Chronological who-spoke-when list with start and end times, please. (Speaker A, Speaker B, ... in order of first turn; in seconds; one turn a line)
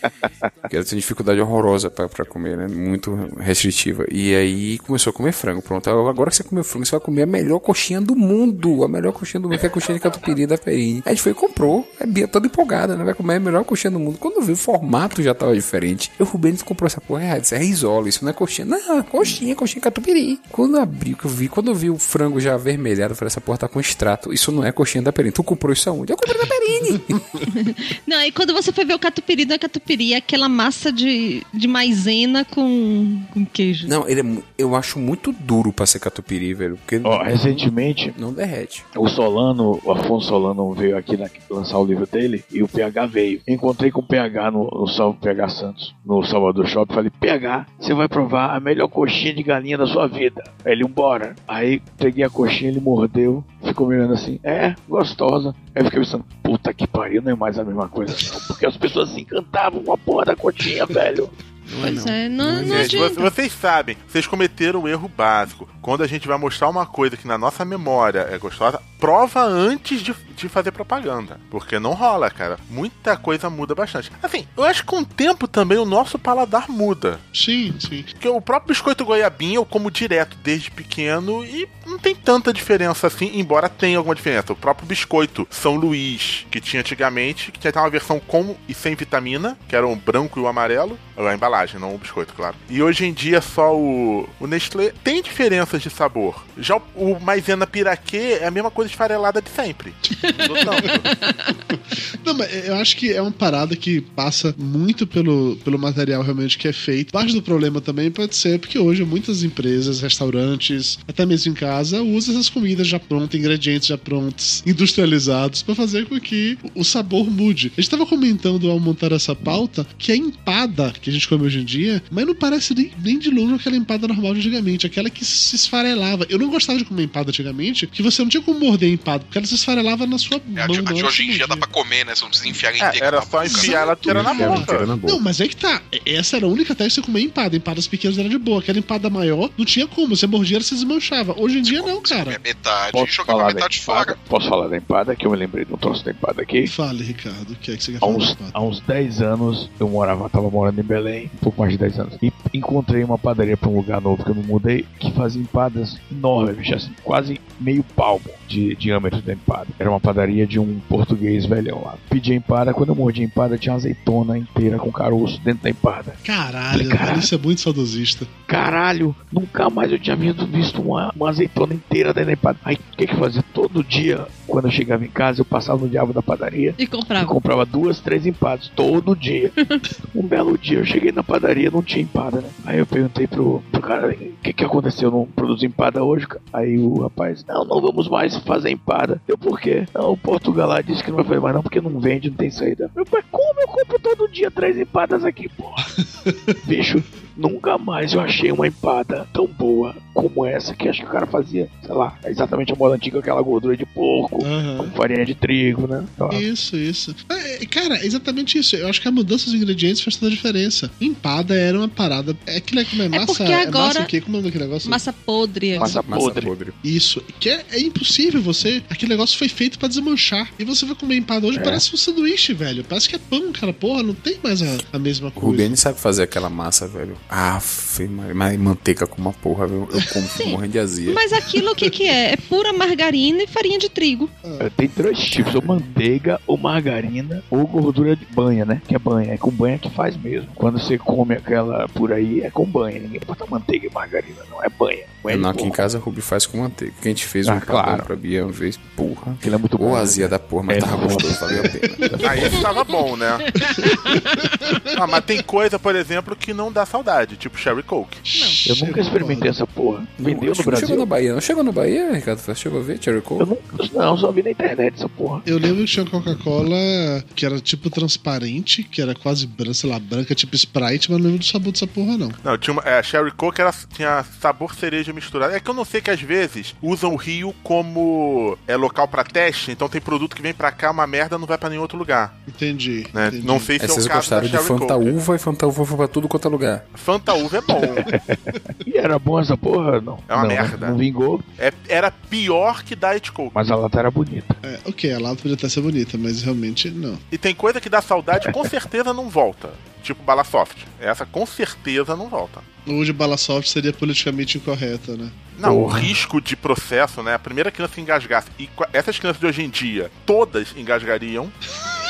Speaker A: 0.7-27.2
Speaker B: 26.4-26.8
Speaker B: 27.5-33.9
Speaker A: 33.9-38.8
Speaker C: 37.0-38.1
Speaker C: 38.9-61.3
Speaker A: 61.7-63.2
Speaker B: 61.8-63.3
Speaker D: 62.7-77.2
Speaker E: 77.3-78.1
Speaker D: 78.2-101.0
Speaker B: 100.2-101.1
Speaker E: 102.2-131.7
Speaker F: 130.6-133.8
Speaker D: 132.8-134.9
Speaker E: 133.4-142.4
Speaker A: 133.6-135.2
Speaker F: 141.6-144.2
Speaker C: 142.9-146.7
Speaker E: 146.6-148.6
Speaker C: 148.0-166.2
Speaker E: 166.2-168.3
Speaker C: 166.7-167.3
Speaker C: 168.5-179.6
Speaker B: 176.8-177.3
Speaker C: 180.1-195.9
Speaker E: 196.2-196.6
Speaker C: 196.6-206.4
Speaker E: 204.4-204.9
Speaker E: 206.3-215.0
Speaker B: 213.1-214.1
Speaker B: 214.8-216.0
Speaker C: 215.8-216.5
Speaker A: 215.8-216.8
Speaker E: 216.8-225.8
Speaker C: 221.5-221.8
Speaker A: 225.3-231.2
Speaker B: 230.3-234.3
Speaker E: 234.4-234.7
Speaker C: 234.6-245.8
Speaker A: 245.3-252.6
Speaker C: 247.4-248.1
Speaker C: 249.4-252.6
Speaker D: 252.2-253.6
Speaker D: 254.9-258.2
Speaker E: 258.2-259.5
Speaker C: 258.6-261.1
Speaker A: 260.2-263.5
Speaker C: 263.4-265.4
Speaker E: 265.4-272.4
Speaker D: 272.4-282.4
Speaker E: 282.5-283.7
Speaker D: 283.1-285.2
Speaker A: 283.8-286.9
Speaker D: 286.9-288.1
Speaker C: 287.8-291.4
Speaker D: 290.3-290.9
Speaker D: 291.6-293.6
Speaker C: 293.5-294.6
Speaker E: 294.6-297.2
Speaker D: 297.3-302.6
Speaker E: 302.9-305.4
Speaker D: 305.6-311.6
Speaker C: 305.6-306.1